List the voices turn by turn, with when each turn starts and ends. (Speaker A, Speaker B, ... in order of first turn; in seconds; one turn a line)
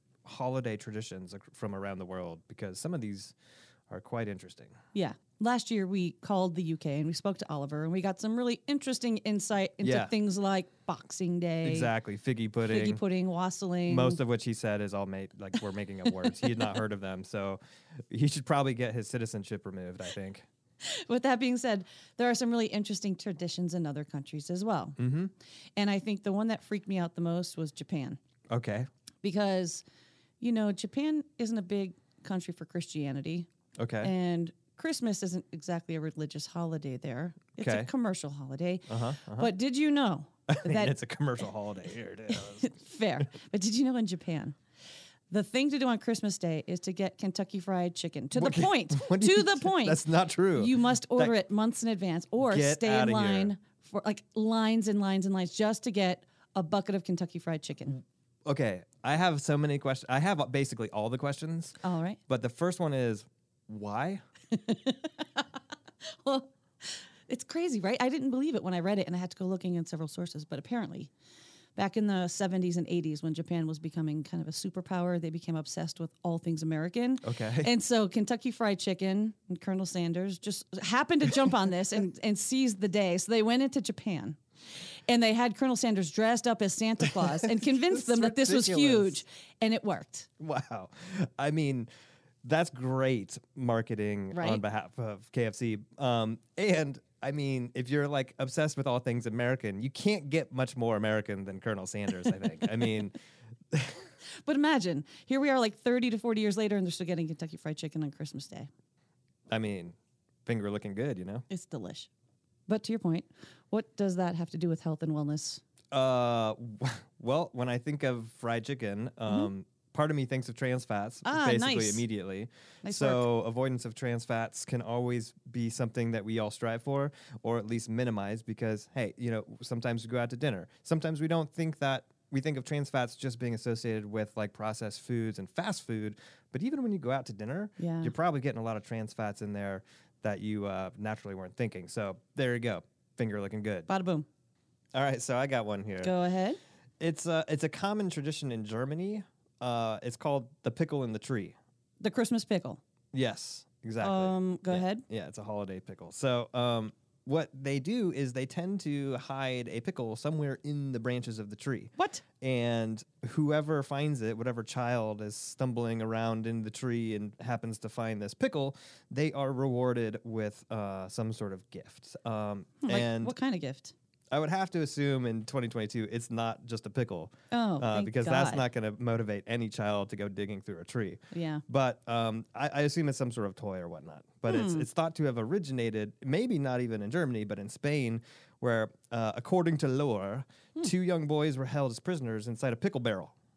Speaker A: 0.2-3.4
Speaker A: 3.9-4.8
Speaker B: 4.9-11.9
Speaker A: 9.8-10.1
Speaker A: 11.6-13.0
Speaker B: 12.6-14.2
Speaker A: 13.9-17.6
Speaker B: 16.2-16.5
Speaker A: 18.1-20.5
Speaker B: 20.8-25.0
Speaker A: 25.0-25.3
Speaker B: 25.8-28.2
Speaker A: 28.5-28.9
Speaker B: 29.2-29.8
Speaker B: 30.4-33.5
Speaker A: 33.8-34.1
Speaker B: 34.0-40.9
Speaker A: 37.6-37.9
Speaker A: 38.9-39.5
Speaker A: 40.5-42.7
Speaker B: 42.3-44.6
Speaker B: 45.3-58.0
Speaker A: 48.4-51.3
Speaker A: 52.4-53.5
Speaker A: 58.5-61.8
Speaker B: 61.8-62.2
Speaker A: 62.3-64.2
Speaker B: 64.5-65.5
Speaker B: 66.0-71.1
Speaker B: 71.8-84.4
Speaker A: 77.2-77.7
Speaker B: 85.1-90.3
Speaker A: 87.1-89.2
Speaker A: 90.4-91.9
Speaker A: 92.4-103.2
Speaker B: 94.3-94.6
Speaker A: 103.7-104.0
Speaker B: 104.5-108.7
Speaker A: 109.5-111.5
Speaker B: 111.5-112.1
Speaker B: 112.7-115.6
Speaker A: 115.9-143.9
Speaker B: 121.2-122.0
Speaker B: 122.8-123.3
Speaker B: 137.8-138.1
Speaker B: 143.9-144.3
Speaker A: 144.9-146.1
Speaker B: 146.0-146.6
Speaker A: 147.0-151.6
Speaker B: 152.0-152.8
Speaker A: 153.1-173.3
Speaker B: 154.0-155.0
Speaker B: 162.0-162.2
Speaker B: 172.8-173.9
Speaker A: 174.3-193.3
Speaker B: 177.5-178.6
Speaker B: 181.3-181.6
Speaker B: 184.5-184.9